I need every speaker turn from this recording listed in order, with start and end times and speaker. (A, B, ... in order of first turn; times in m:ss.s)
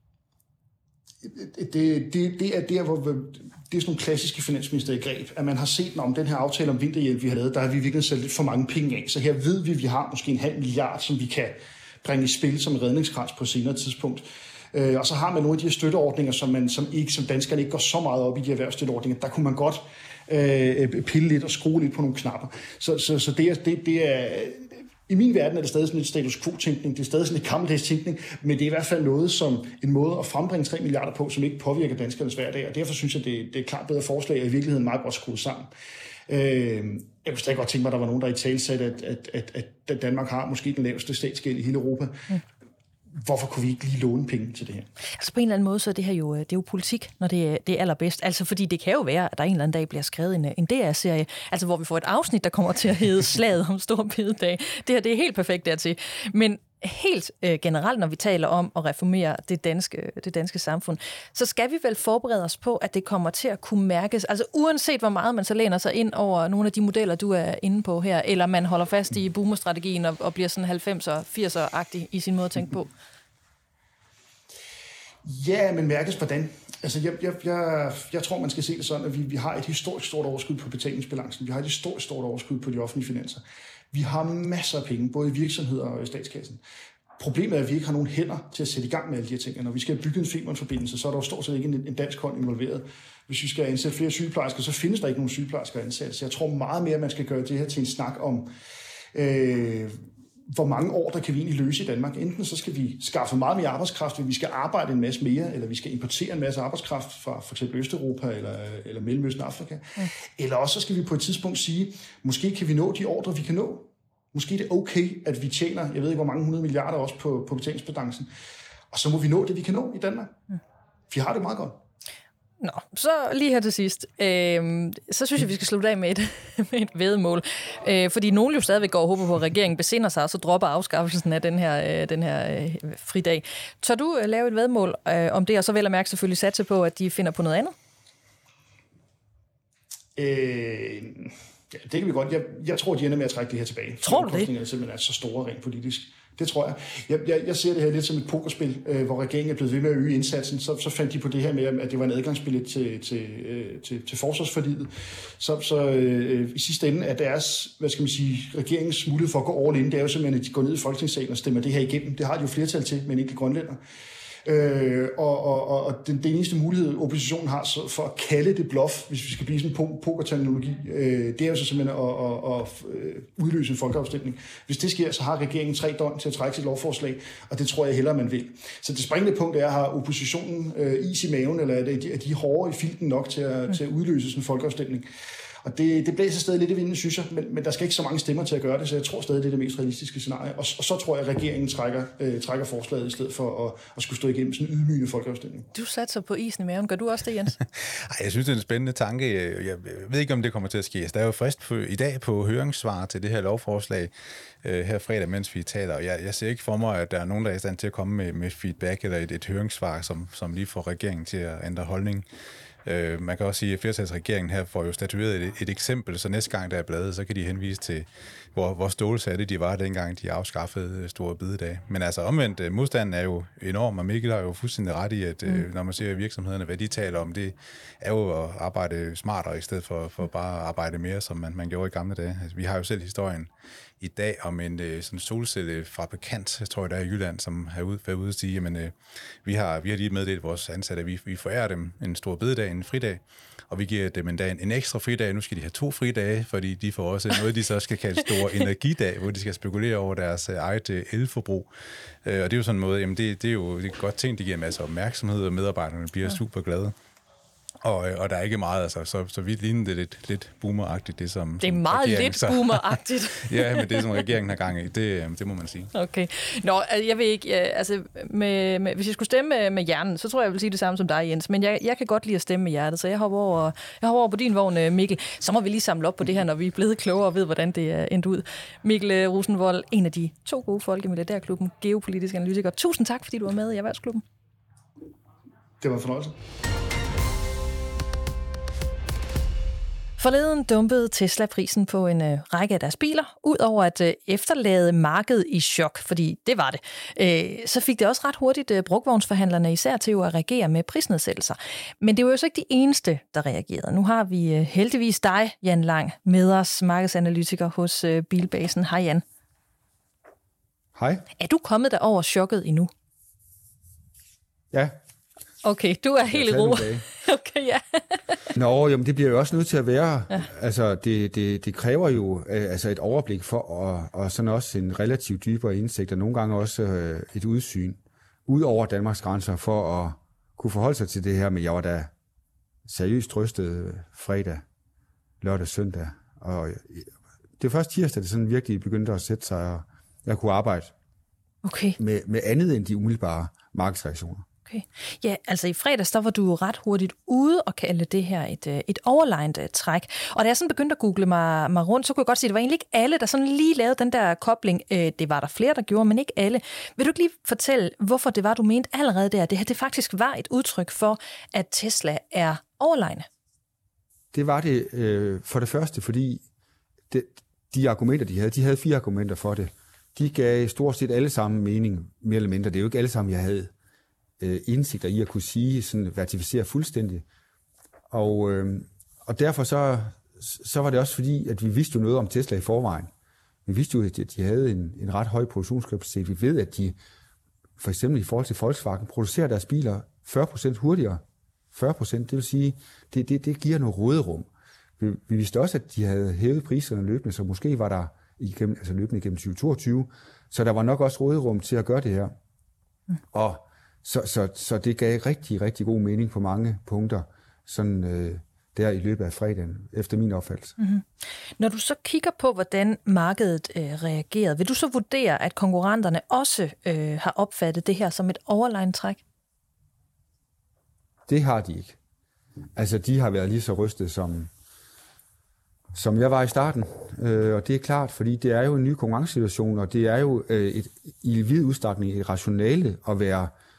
0:01.2-0:35.7 A
0:36.3-0:42.4 A
0:43.2-0:44.9 A
0:45.2-1:12.9 B
1:15.2-1:26.6 A
1:27.2-1:38.5 A
1:39.1-1:58.3 A
1:58.9-2:00.4 A
2:01.1-2:01.8 A
2:02.6-2:17.7 B
2:20.2-2:43.8 A
2:24.0-2:24.5 B
2:44.4-3:05.1 A
3:05.6-3:15.7 A
3:15.7-3:17.6 B
3:17.8-3:24.1 C
3:24.6-3:32.3 C
3:32.8-4:11.7 C
4:12.2-4:16.9 C
4:17.8-4:25.9 C
4:21.6-4:24.1 B
4:25.9-4:44.2 B
4:45.8-4:46.4 A
4:50.2-5:09.2 B
5:11.0-5:11.2 D
5:11.4-5:12.9 B
5:14.7-5:15.0 D
5:15.6-5:18.4 B
5:16.3-5:17.1 D
5:18.5-5:32.1 D
5:32.9-5:34.6 D
5:35.4-5:40.9 D
5:41.6-5:42.0 B
5:42.0-5:44.5 D
5:44.7-6:03.3 B
6:04.3-6:06.4 D
6:07.1-6:13.7 D
6:14.4-6:17.2 D
6:18.1-6:23.1 D
6:23.7-6:27.0 D
6:27.8-6:42.4 D
6:43.3-6:50.8 D
6:50.8-6:51.1 B
6:51.6-6:59.2 B
7:01.3-7:02.0 D
7:02.8-7:04.5 D
7:05.9-7:13.5 D